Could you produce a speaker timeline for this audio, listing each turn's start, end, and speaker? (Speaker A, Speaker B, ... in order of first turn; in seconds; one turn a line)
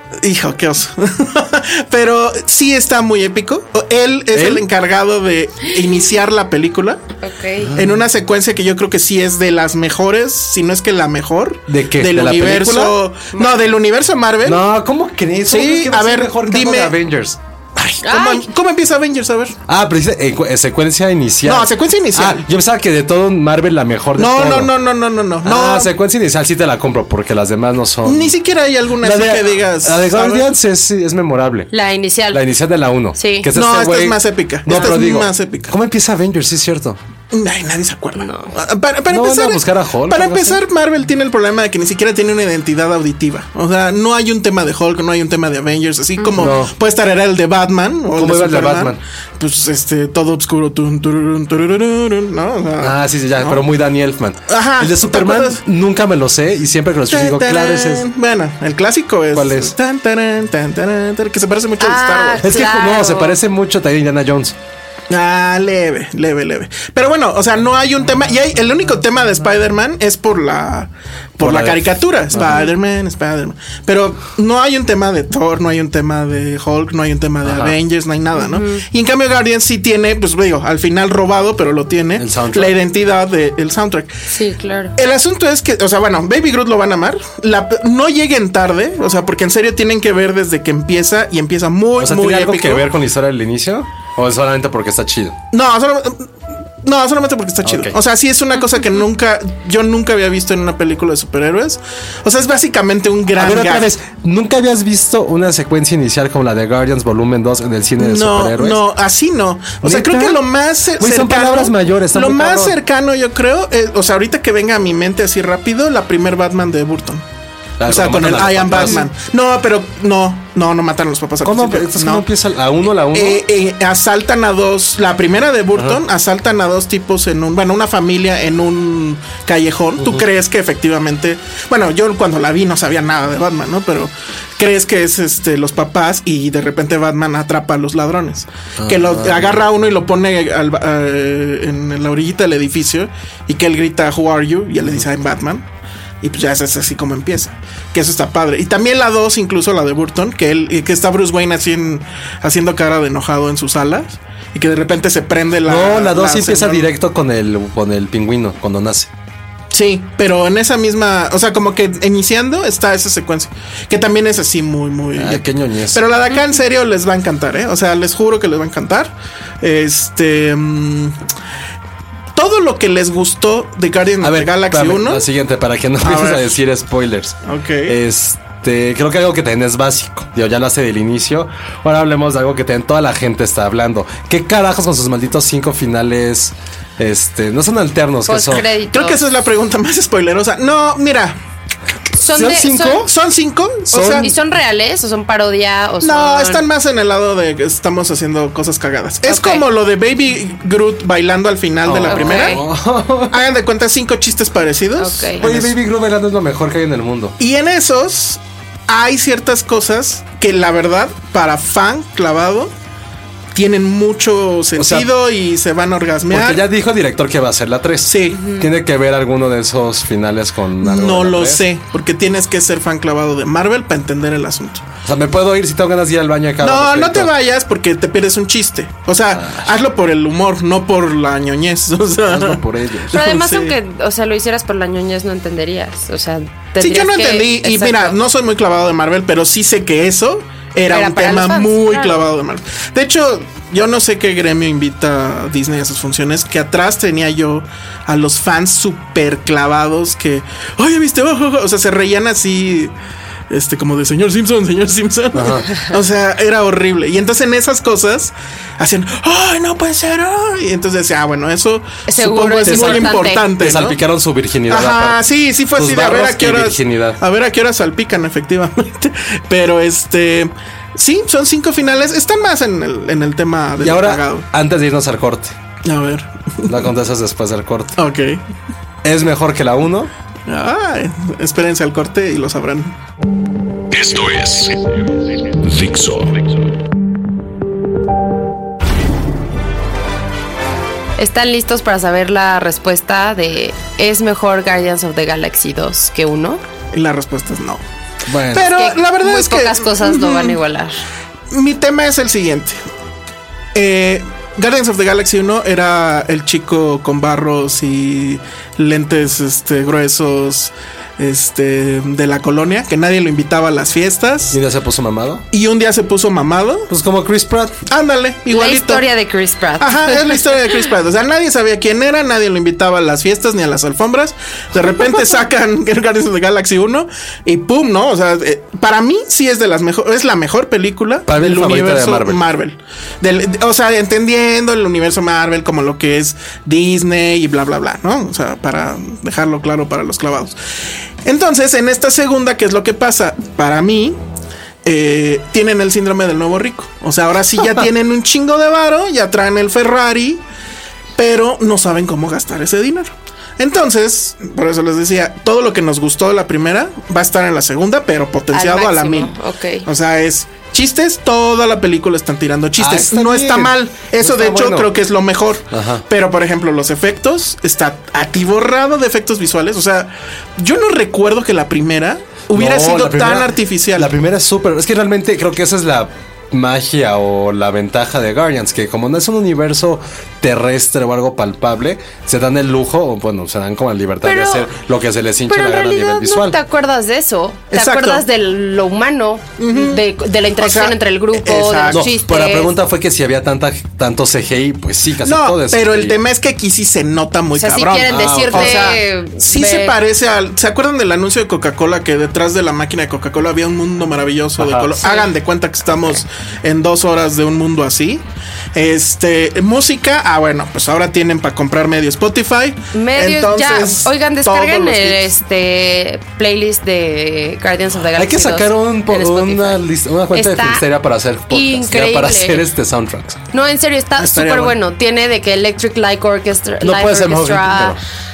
Speaker A: 0.2-7.0
Speaker B: 4.3-4.7
Speaker C: 7.2-7.7
Speaker B: 7.6-8.0
Speaker A: 7.8-14.6
Speaker B: 11.7-13.0
Speaker C: 13.3-13.6
Speaker B: 14.4-17.4
Speaker A: 15.5-17.0
Speaker A: 17.8-19.6
Speaker C: 18.0-18.5
Speaker B: 19.7-24.7
Speaker A: 21.4-22.5
Speaker A: 24.2-25.9
Speaker B: 25.4-28.4
Speaker A: 28.1-30.5
Speaker B: 29.0-31.7
Speaker C: 31.7-32.4
Speaker B: 32.3-37.0
Speaker C: 33.2-33.5
Speaker A: 33.5-35.8
Speaker A: 37.3-53.7
Speaker C: 38.2-38.5
Speaker B: 39.1-40.6
Speaker C: 46.2-46.5
Speaker B: 46.4-46.7
Speaker B: 48.2-49.0
Speaker B: 52.8-58.1
Speaker A: 54.5-55.6
Speaker A: 57.1-62.5
Speaker B: 59.3-59.8
Speaker C: 61.8-63.4
Speaker B: 62.4-64.6
Speaker A: 65.1-84.1
Speaker B: 71.4-72.6
Speaker B: 77.5-77.8
Speaker C: 78.4-78.8
Speaker B: 82.2-82.8
Speaker C: 84.3-84.9
Speaker A: 85.0-92.9
Speaker B: 92.0-95.4
Speaker A: 95.5-96.3
Speaker A: 96.8-103.9
Speaker B: 97.6-98.0
Speaker B: 103.4-108.8
Speaker A: 108.0-117.2
Speaker B: 109.8-110.4
Speaker B: 111.0-112.8
Speaker B: 117.8-119.1
Speaker A: 117.8-122.3
Speaker B: 121.4-123.4
Speaker A: 123.1-145.7
Speaker B: 125.8-126.0
Speaker B: 138.8-139.6
Speaker A: 146.2-156.9
Speaker B: 155.7-159.1
Speaker A: 159.7-171.2
Speaker B: 165.2-166.0
Speaker A: 172.3-175.3
Speaker B: 174.2-188.7
Speaker A: 176.0-176.6
Speaker A: 177.5-178.0
Speaker C: 188.3-189.2
Speaker A: 188.9-191.4
Speaker C: 192.2-193.0
Speaker B: 192.3-193.1
Speaker A: 193.0-194.3
Speaker B: 193.9-194.3
Speaker C: 194.2-196.6
Speaker A: 196.0-202.6
Speaker C: 199.3-199.6
Speaker B: 201.8-203.4
Speaker C: 202.1-202.6
Speaker A: 203.3-205.8
Speaker C: 205.0-205.4
Speaker B: 205.4-207.4
Speaker A: 207.4-212.7
Speaker A: 213.6-216.7
Speaker B: 214.8-215.1
Speaker B: 216.3-221.6
Speaker A: 218.1-218.5
Speaker A: 220.8-224.9
Speaker B: 225.0-227.3
Speaker A: 226.6-233.8
Speaker B: 229.3-229.7
Speaker B: 232.3-233.2
Speaker C: 233.1-238.2
Speaker A: 236.8-252.9
Speaker C: 240.9-242.2
Speaker A: 253.5-264.0
Speaker B: 255.3-255.7
Speaker C: 262.1-263.5
Speaker B: 262.6-265.2
Speaker A: 264.7-274.5
Speaker B: 265.8-267.2
Speaker B: 273.8-275.6
Speaker A: 275.9-276.9
Speaker B: 276.6-277.9
Speaker A: 278.0-278.4
Speaker B: 279.0-280.1
Speaker A: 280.5-283.0
Speaker D: 283.9-286.5
Speaker C: 291.2-296.6
Speaker A: 296.9-297.8
Speaker B: 298.3-298.7
Speaker A: 298.5-300.6
Speaker C: 298.7-301.0
Speaker A: 301.5-302.8
Speaker A: 303.8-314.6
Speaker B: 314.5-315.4
Speaker A: 315.5-316.9
Speaker B: 316.9-317.8
Speaker A: 317.9-319.1
Speaker C: 318.5-320.6
Speaker A: 319.8-340.6
Speaker B: 331.3-332.4
Speaker A: 341.2-344.2
Speaker A: 344.9-350.4
Speaker A: 351.2-359.3
Speaker C: 358.5-359.9
Speaker A: 359.9-374.2
Speaker B: 362.8-364.9
Speaker B: 365.7-366.0
Speaker B: 372.5-386.6
Speaker C: 384.2-384.7
Speaker C: 385.5-392.7
Speaker A: 387.7-388.2
Speaker A: 389.6-390.0
Speaker A: 390.6-392.1
Speaker B: 391.9-396.2
Speaker A: 395.2-408.2
Speaker C: 397.6-400.0
Speaker B: 398.1-399.0
Speaker B: 404.6-404.9
Speaker C: 405.0-405.3
Speaker A: 408.8-415.3
Speaker C: 412.9-420.9
Speaker B: 418.2-423.4
Speaker C: 421.5-422.6
Speaker C: 423.5-428.0
Speaker A: 424.2-424.8
Speaker B: 426.8-428.0